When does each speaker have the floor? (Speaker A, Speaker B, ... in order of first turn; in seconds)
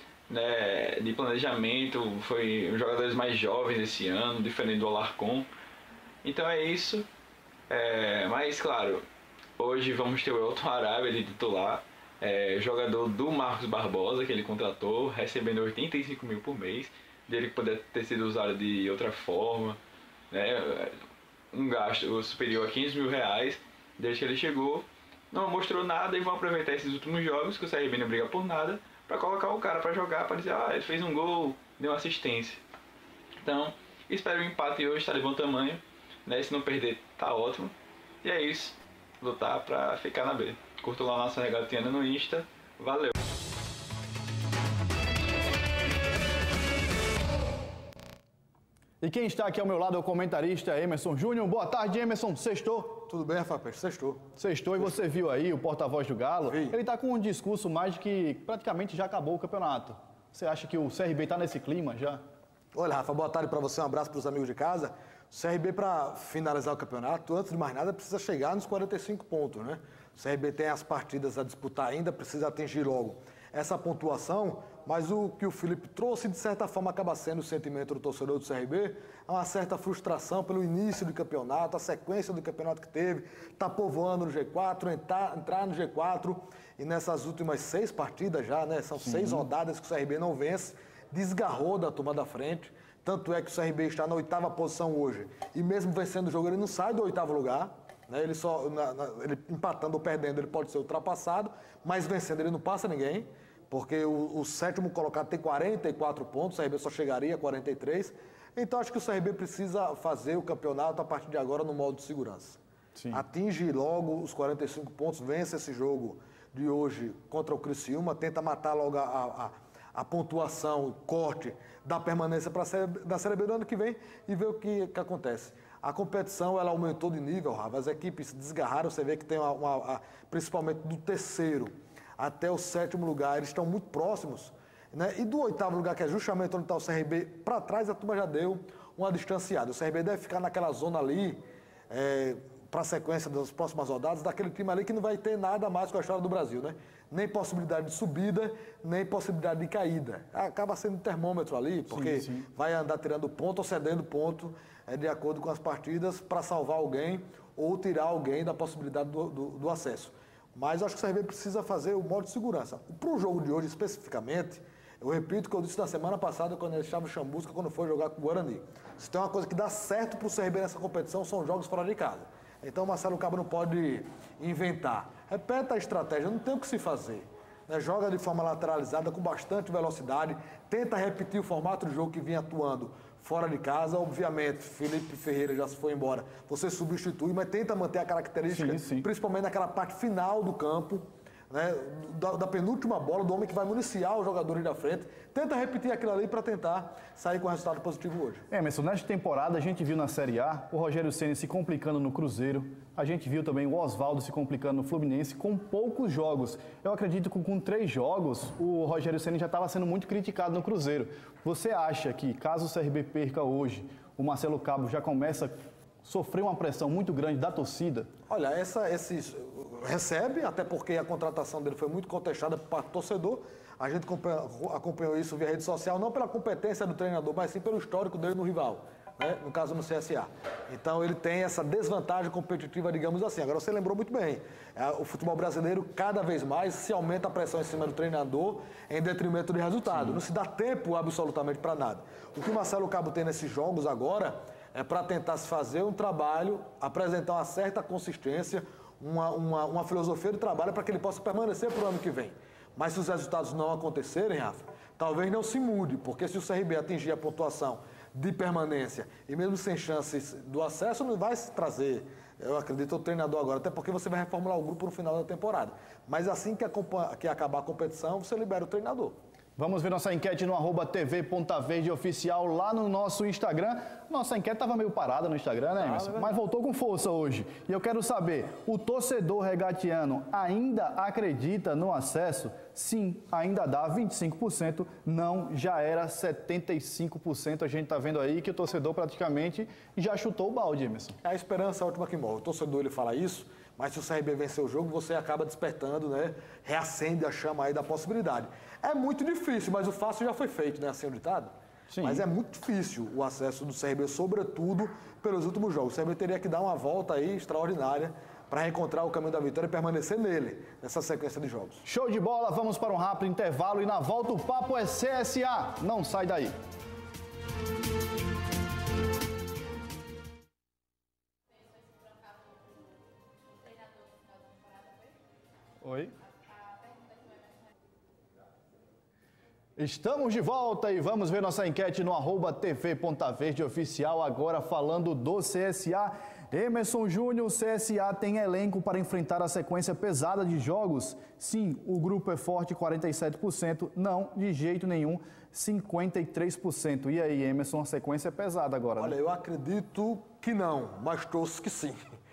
Speaker A: 0.3-5.5, 6.2-7.1, 7.7-9.1, 9.6-19.8, 20.3-21.0, 21.5-32.6, 33.4-43.1
Speaker B: 49.0-53.0, 54.4-62.2, 113.0-113.2, 151.9-152.5, 188.5-189.1, 198.5-218.1, 269.6-291.2, 301.9-302.2, 311.9-316.5, 325.8-326.1, 329.8-349.1
Speaker C: 53.1-54.3, 56.5-56.8, 62.7-112.6, 113.1-198.4, 218.3-269.2, 275.8-276.3, 291.2-311.8, 349.0-352.0